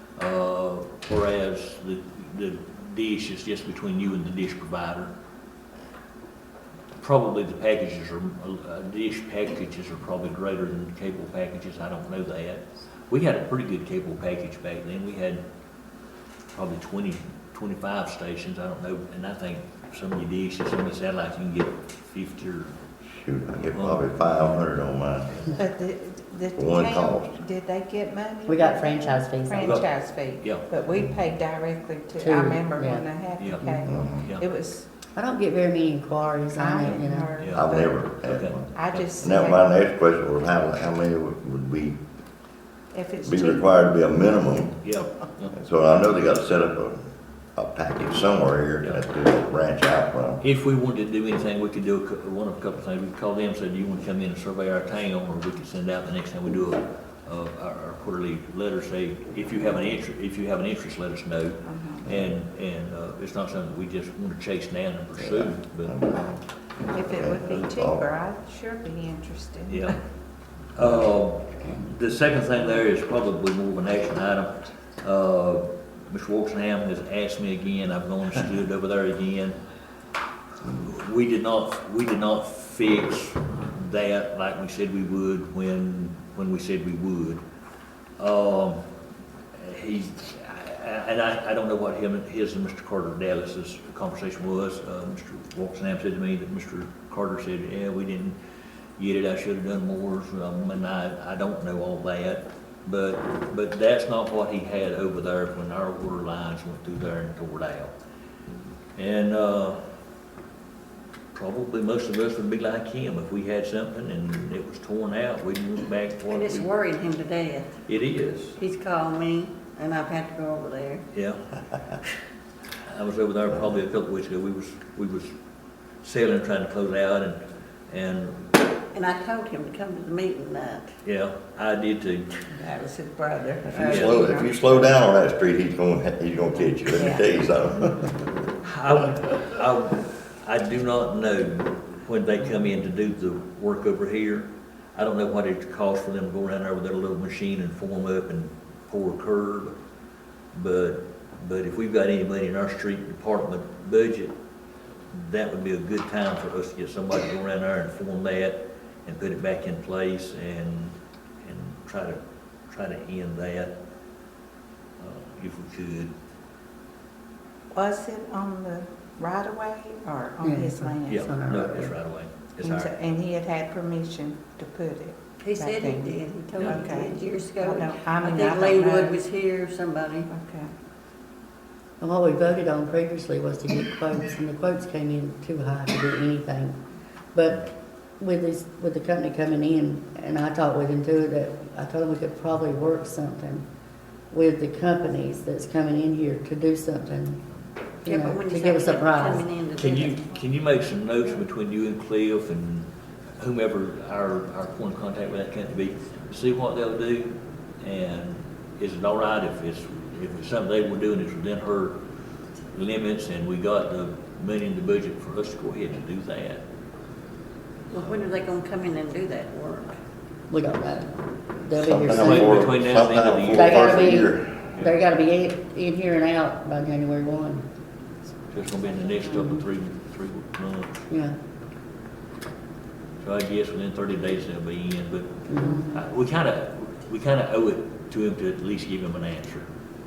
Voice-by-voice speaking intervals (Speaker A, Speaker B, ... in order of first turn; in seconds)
Speaker A: 0.2-5.1, 7.0-15.4, 16.5-22.7, 23.7-24.3, 29.6-29.9, 30.4-30.6, 33.4-34.5, 37.4-37.6, 38.3-39.1, 44.8-45.5, 50.4-66.0, 69.7-70.0, 70.8-79.6, 80.7-87.4, 88.2-88.8, 89.6-98.4, 99.0-107.9, 109.0-109.8, 111.3-116.7, 117.9-118.6, 121.1-121.5, 122.9-125.3, 126.0-128.5, 131.0-132.4, 133.8-134.3, 138.6-149.8, 150.5-154.3, 155.1-163.7, 165.0-166.1, 171.1-173.1, 199.8-212.0, 212.7-216.6, 222.1-224.9, 228.5-231.0, 233.2-239.7
Speaker B: 23.1-25.4, 26.6-27.3, 33.9-34.3, 37.5-38.7, 39.2-42.0, 43.2-44.8, 45.5-47.0, 47.6-50.4, 65.2-66.4, 67.0-68.1, 133.7-138.1, 221.7-224.6
Speaker C: 25.6-34.9, 36.5-38.0, 38.7-39.7, 42.9-43.7, 61.6-62.0, 66.9-70.0, 132.5-134.5, 136.9-137.3, 167.7-171.3, 172.6-179.2, 180.3-180.7
Speaker D: 28.5-29.7, 32.2-33.1, 35.1-37.4, 170.4-171.9, 182.0-186.8, 187.3-193.7, 194.3-197.4, 198.0-199.5, 220.5-222.8, 223.5-227.7, 231.1-231.4, 235.5-236.0
Speaker E: 116.3-117.7, 118.6-121.0, 128.9-130.9, 133.7-134.2, 175.4-180.3, 198.1-200.2, 217.9-220.0